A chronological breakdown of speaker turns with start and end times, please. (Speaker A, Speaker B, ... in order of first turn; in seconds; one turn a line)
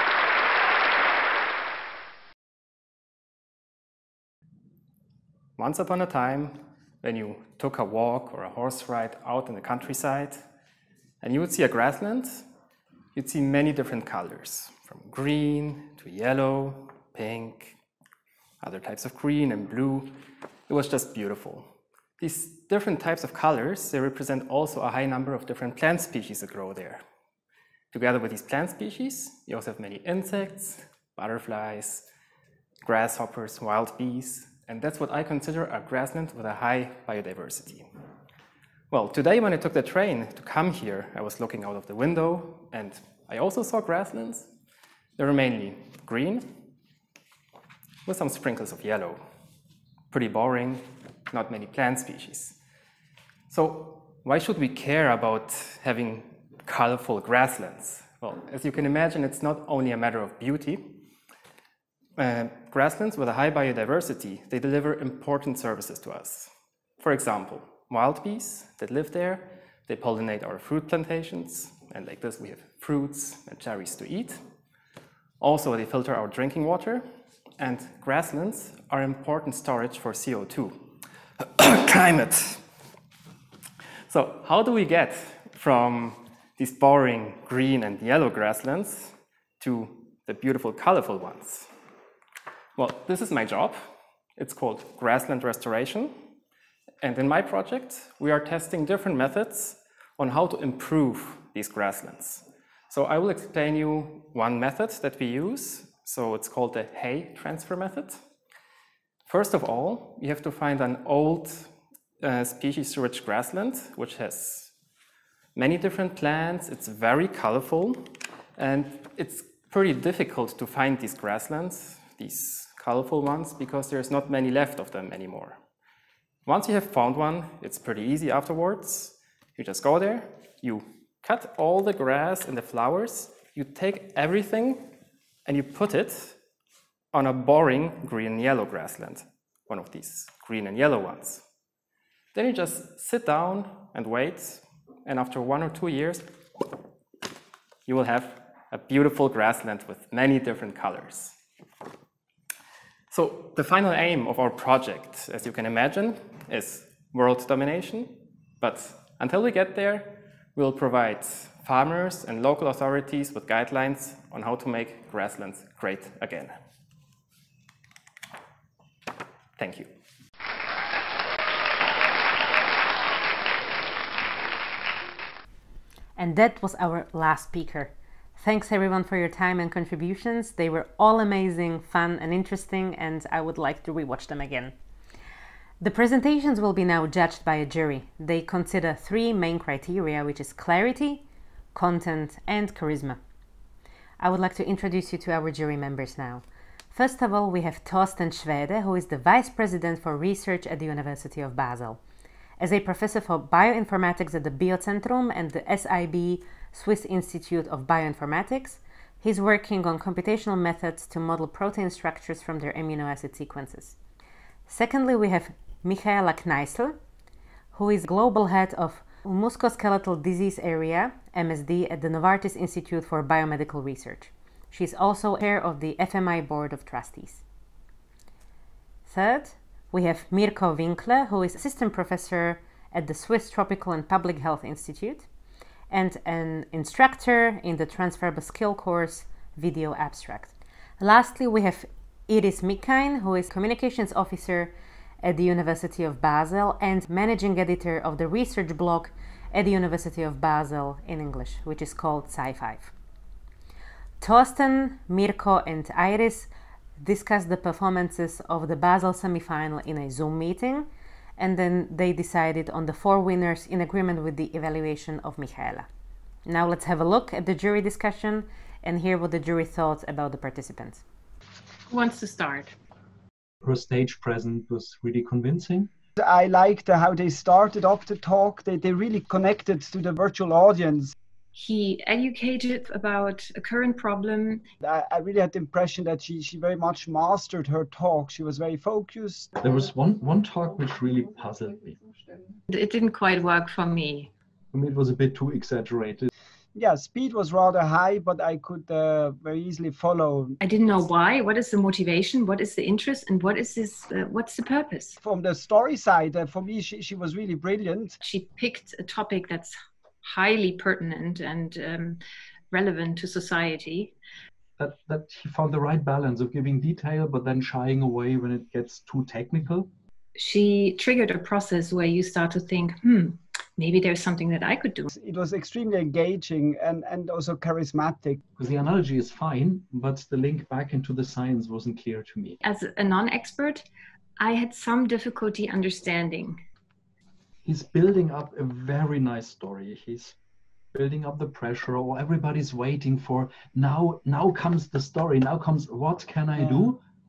Speaker A: 5.6-10.4
Speaker A: 11.2-12.5
Speaker A: 13.2-17.8
Speaker A: 18.6-20.1
Speaker A: 20.7-27.0
Speaker A: 27.9-32.1
Speaker A: 32.8-37.9
Speaker A: 38.9-44.5
Speaker A: 45.2-46.6
Speaker A: 48.1-49.2
Speaker A: 50.1-52.6
Speaker A: 53.5-61.0
Speaker A: 62.2-74.4
Speaker A: 75.4-77.0
Speaker A: 77.6-80.8
Speaker A: 81.5-82.6
Speaker A: 84.1-91.7
Speaker A: 92.8-93.8
Speaker A: 94.4-96.2
Speaker A: 97.0-108.2
Speaker A: 109.3-114.7
Speaker A: 115.5-125.6
Speaker A: 126.5-134.9
Speaker A: 135.4-136.4
Speaker A: 137.1-141.4
Speaker A: 142.3-146.3
Speaker A: 147.9-151.4
Speaker A: 153.1-166.6
Speaker A: 169.6-169.9
Speaker B: 176.2-184.8
Speaker B: 185.8-193.2
Speaker B: 194.2-202.0
Speaker B: 202.6-214.0
Speaker B: 214.7-217.0
Speaker B: 217.7-227.4
Speaker B: 229.1-235.3
Speaker B: 235.9-252.9
Speaker B: 254.2-265.9
Speaker B: 266.5-271.0
Speaker C: 271.9-272.8
Speaker D: 273.6-275.9
Speaker E: 276.2-281.1
Speaker C: 281.5-284.7
Speaker E: 284.8-289.6
Speaker D: 289.6-292.2
Speaker C: 292.7-294.3
Speaker D: 294.7-296.3
Speaker E: 296.8-300.6
Speaker C: 300.6-305.2
Speaker E: 305.2-308.2
Speaker C: 308.2-312.2
Speaker C: 312.7-314.1
Speaker D: 314.8-319.9
Speaker C: 320.4-325.1
Speaker E: 325.1-328.4
Speaker D: 328.5-332.6
Speaker C: 332.6-333.9
Speaker C: 334.4-336.6
Speaker D: 337.6-340.4
Speaker D: 340.9-347.0